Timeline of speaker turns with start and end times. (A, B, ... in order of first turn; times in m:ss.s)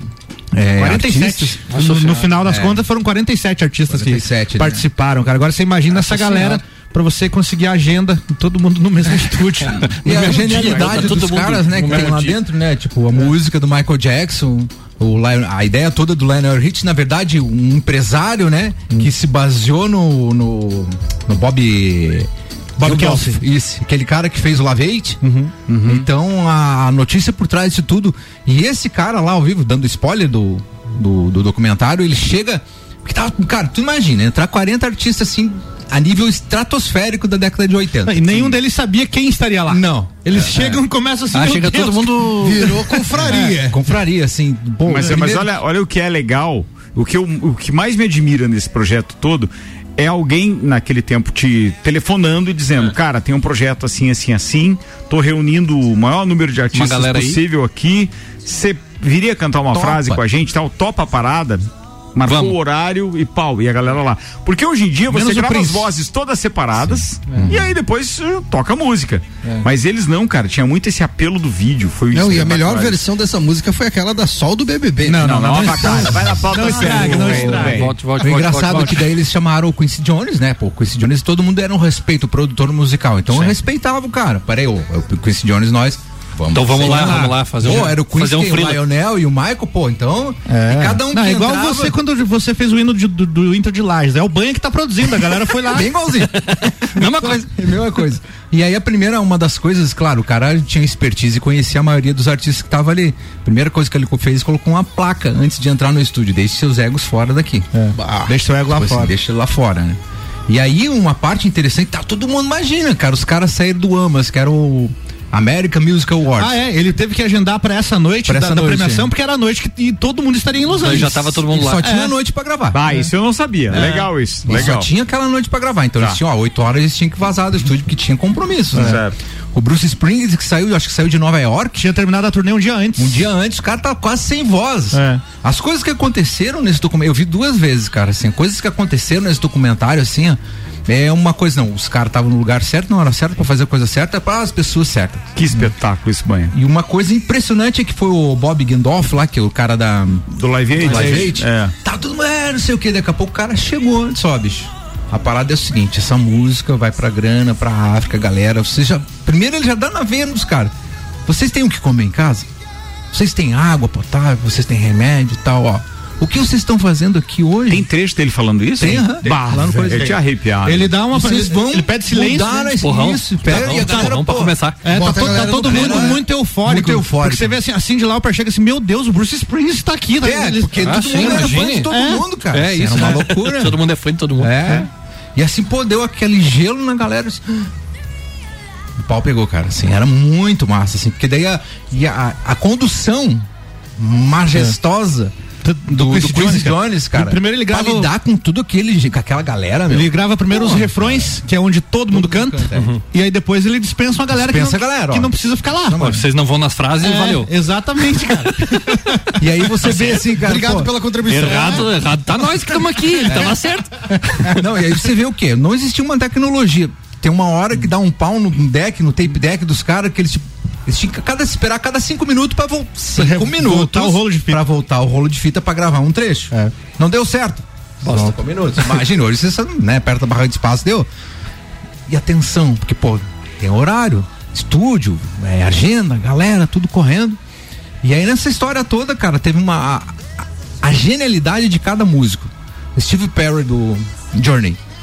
0:00.5-0:01.7 A
0:00.8-0:10.9 B
0:01.7-0:02.3 C
0:02.4-0:02.8 A
0:03.9-0:04.8 A
0:06.1-0:06.6 A
0:09.9-0:12.4 C
0:10.0-0:22.3 A
0:22.8-0:23.4 B
0:22.8-0:25.2 A
0:25.2-0:25.5 B
0:25.7-0:26.0 D
0:25.8-0:38.6 A
0:38.1-0:43.6 B
0:39.7-0:40.8 A
0:41.3-0:43.0 C
0:42.4-0:43.8 E
0:43.2-0:45.5 A
0:44.9-1:13.0 D
0:56.7-0:57.4 C
0:59.7-1:00.2 A
1:02.3-1:02.6 C
1:05.1-1:05.9 B
1:07.3-1:07.7 A
1:12.1-1:16.3 E
1:15.0-1:17.8 B
1:15.2-1:17.9 D
1:17.0-1:19.1 C
1:17.1-1:32.0 A
1:18.7-1:19.0 B
1:26.5-1:28.8 C
1:26.8-1:27.8 B
1:30.5-1:35.9 B
1:35.6-1:47.7 A
1:36.4-1:37.5 C
1:47.8-1:49.1 B
1:48.0-1:48.3 E
1:48.7-1:56.6 A
1:56.4-2:02.1 B
1:58.3-1:59.1 A
2:00.8-2:01.9 C
2:01.5-2:02.8 A
2:02.7-2:04.9 D
2:03.7-2:04.1 B
2:04.4-2:09.0 A
2:08.8-2:09.2 D
2:09.5-2:11.8 A
2:11.8-2:13.2 B
2:13.0-2:25.7 A
2:14.9-2:15.2 B
2:25.4-2:26.5 D
2:26.5-2:40.7 A
2:30.3-2:31.7 D
2:41.3-2:42.5 A
2:43.1-2:47.9 A
2:47.7-2:50.9 D
2:48.8-2:50.2 A
2:49.9-2:52.8 B
2:51.1-2:57.6 A
2:52.8-2:54.8 C
2:53.4-2:54.2 B
2:54.8-3:02.2 B
2:54.9-2:56.2 E
3:00.2-3:03.8 A
3:00.8-3:01.9 C
3:02.5-3:04.7 C
3:02.9-3:03.2 B
3:04.4-3:07.7 A
3:09.0-3:15.3 A
3:15.6-3:18.1 B
3:15.9-3:21.4 A
3:19.9-3:26.1 B
3:22.1-3:22.9 A
3:24.3-3:25.3 A
3:25.8-3:26.2 A
3:26.0-3:27.5 C
3:27.0-3:30.2 B
3:29.4-3:30.9 A
3:29.9-3:31.9 E
3:31.3-3:34.5 C
3:33.3-3:33.6 A
3:34.4-3:51.1 A
3:43.2-3:44.6 B
3:52.1-3:57.4 A
3:58.0-4:04.8 A